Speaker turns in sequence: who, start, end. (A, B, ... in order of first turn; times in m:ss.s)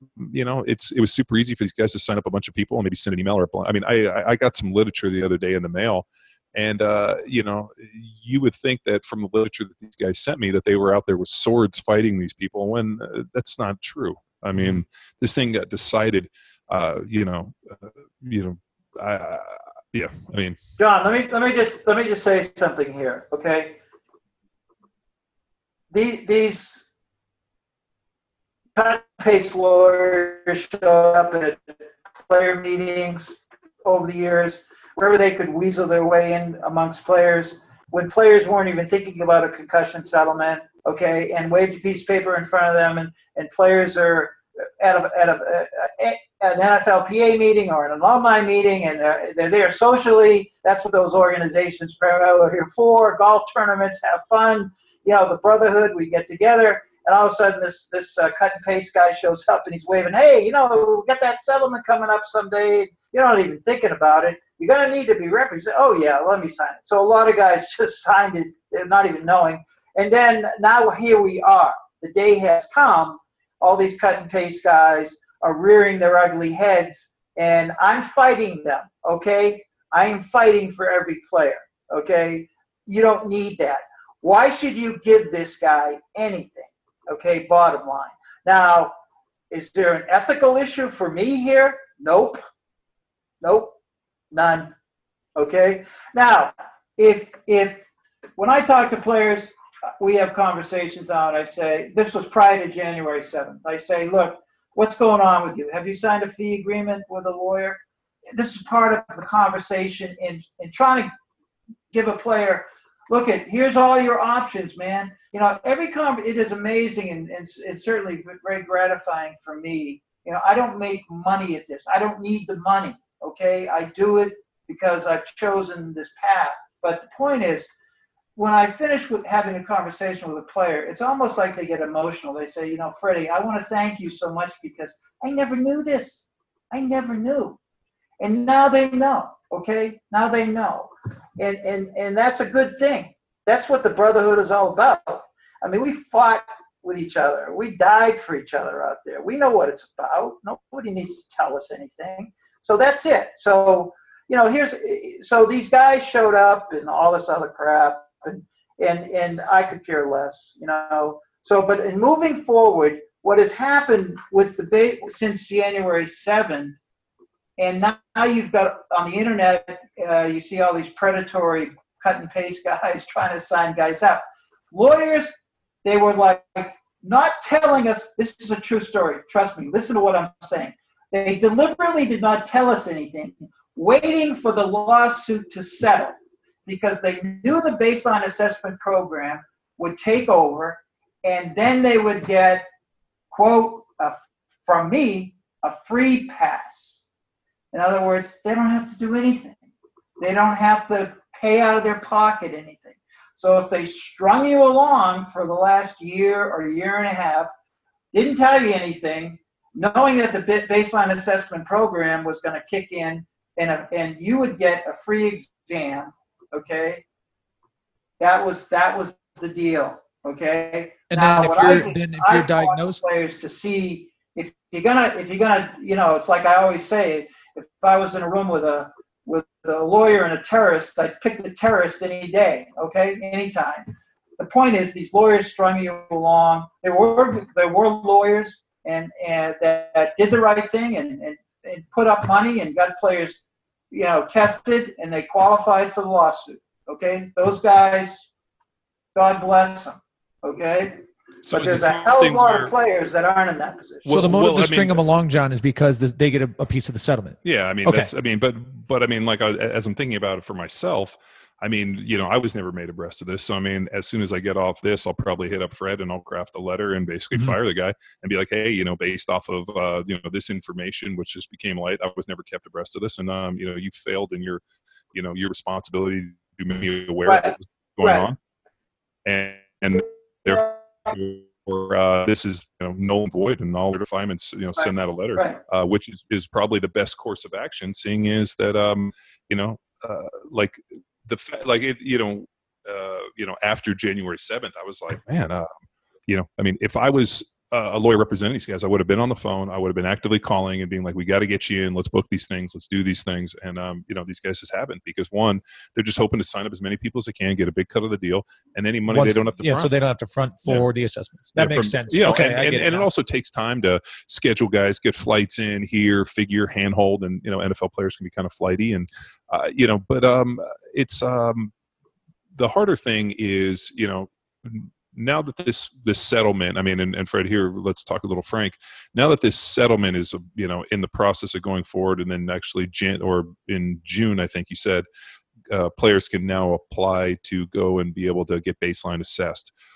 0:00.2-0:20.6 A
0:20.8-0:23.8 B
0:25.9-0:26.8 B
0:28.8-0:31.8 B
0:32.3-1:28.9 B
1:29.5-1:32.4 B
1:33.4-1:33.7 B
1:34.3-1:34.7 B
1:35.4-1:37.8 B
1:38.4-1:47.8 B
1:48.3-1:51.1 B
1:51.9-2:07.7 B
2:08.4-2:17.6 B
2:18.2-2:46.8 B
2:47.6-2:55.3 B
2:55.8-3:06.1 B
3:06.6-3:12.6 B
3:13.3-3:17.0 B
3:17.7-3:19.6 B
3:20.2-3:27.5 B
3:28.1-3:37.0 B
3:38.2-4:08.3 B
3:41.1-3:43.0 C
4:09.1-4:14.1 B
4:11.4-4:12.7 A
4:14.0-4:15.0 A
4:14.1-4:18.1 C
4:17.4-4:34.6 A
4:35.1-4:38.4 A
4:37.2-4:38.3 B
4:39.2-4:55.8 A
4:44.8-4:45.6 B
4:56.3-5:09.9 A
5:09.1-5:13.1 C
5:11.5-5:21.7 A
5:22.6-5:35.0 A
5:35.7-5:39.7 A